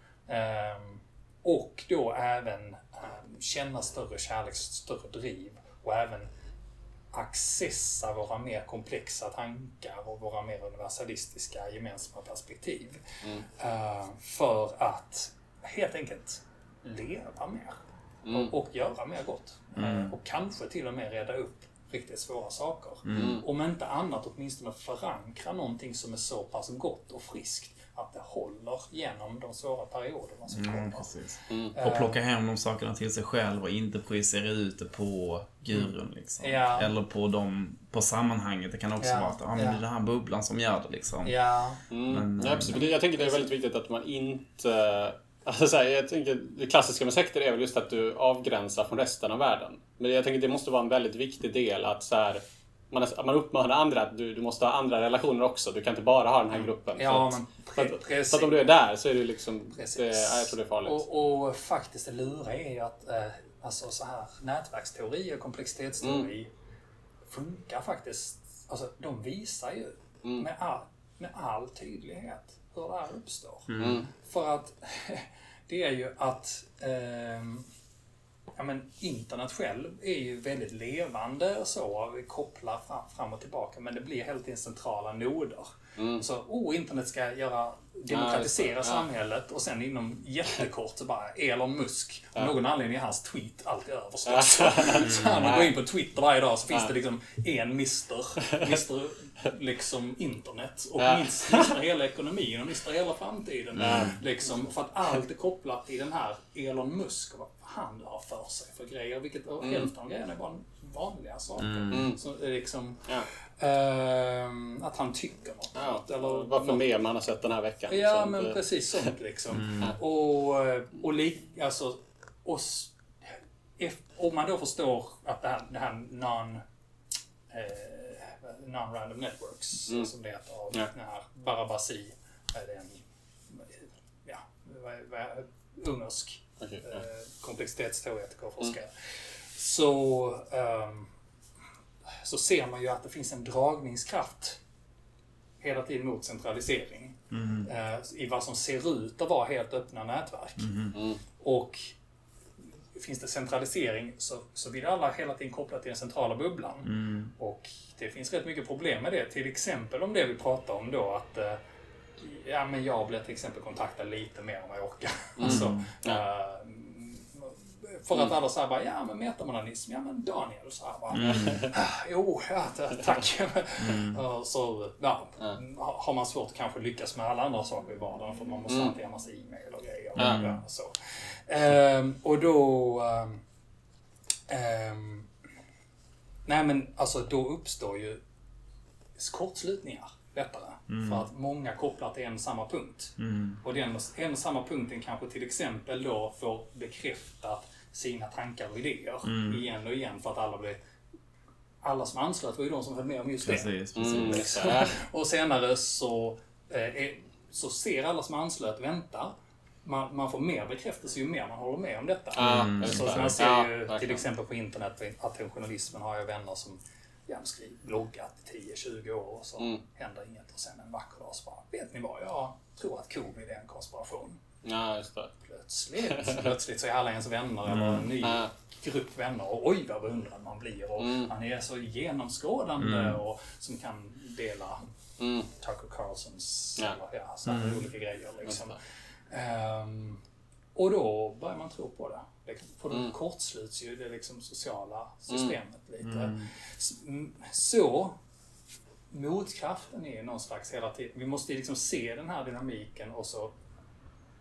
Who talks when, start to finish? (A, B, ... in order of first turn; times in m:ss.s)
0:00.3-0:06.3 A
0:07.1-0:13.0 A
0:13.6-0:31.1 A
0:18.3-0:18.5 B
0:19.8-0:20.1 C
0:23.1-0:23.4 C
0:23.1-0:23.4 B
0:30.5-0:41.4 C
0:31.5-0:31.7 B
0:31.7-0:32.2 A
0:36.4-0:36.9 A
0:39.0-0:39.8 A
0:41.2-0:41.8 A
0:41.9-1:01.0 B
0:42.1-0:42.8 C
0:42.7-0:43.5 A
0:56.6-0:58.7 A
0:59.8-1:06.5 A
1:07.3-1:17.7 A
1:13.7-1:14.1 C
1:13.8-1:14.1 B
1:18.6-1:56.8 A
1:26.0-1:26.2 B
1:28.1-1:29.0 B
1:34.3-1:35.8 B
1:35.0-1:35.5 C
1:41.0-1:41.7 B
1:43.8-1:44.2 B
1:43.8-1:44.2 C
1:49.6-1:49.9 B
1:51.6-1:52.1 C
1:51.9-1:52.2 B
1:55.8-1:58.6 B
1:57.9-2:03.0 A
1:59.5-1:59.9 C
2:03.8-2:06.6 A
2:07.5-2:18.9 A
2:16.6-2:17.0 B
2:19.6-2:21.1 A
2:22.2-2:24.6 A
2:25.6-2:30.7 A
2:27.3-2:27.7 C
2:30.6-2:31.0 C
2:31.0-2:31.2 B
2:31.4-2:32.0 A
2:32.9-2:41.6 A
2:36.8-2:37.3 C
2:42.2-3:03.4 A
2:45.4-2:46.2 B
2:45.4-2:45.9 C
2:51.1-2:51.6 C
2:51.3-2:51.7 B
2:53.8-2:54.2 C
3:00.2-3:00.6 C
3:00.2-3:00.5 B
3:04.5-3:05.3 A
3:06.5-3:08.2 A
3:09.2-3:20.8 A
3:10.9-3:11.3 C
3:13.2-3:13.6 C
3:19.2-3:19.6 C
3:21.8-3:44.4 A
3:23.4-3:24.5 C
3:24.0-3:24.9 B
3:32.4-3:34.2 B
3:32.4-3:33.2 C
3:44.6-3:45.3 B
3:45.4-3:54.8 A
3:46.1-3:46.5 B
3:47.7-3:48.1 C
3:48.2-3:48.5 B
3:51.0-3:51.3 B
3:52.8-3:53.2 C
3:55.2-3:55.5 B
3:55.6-3:58.8 A
3:57.5-3:57.9 C
3:58.5-3:58.8 B
3:59.3-4:00.2 A
4:00.8-4:08.2 A
4:05.3-4:05.6 B
4:06.0-4:06.5 C
4:09.1-4:13.5 A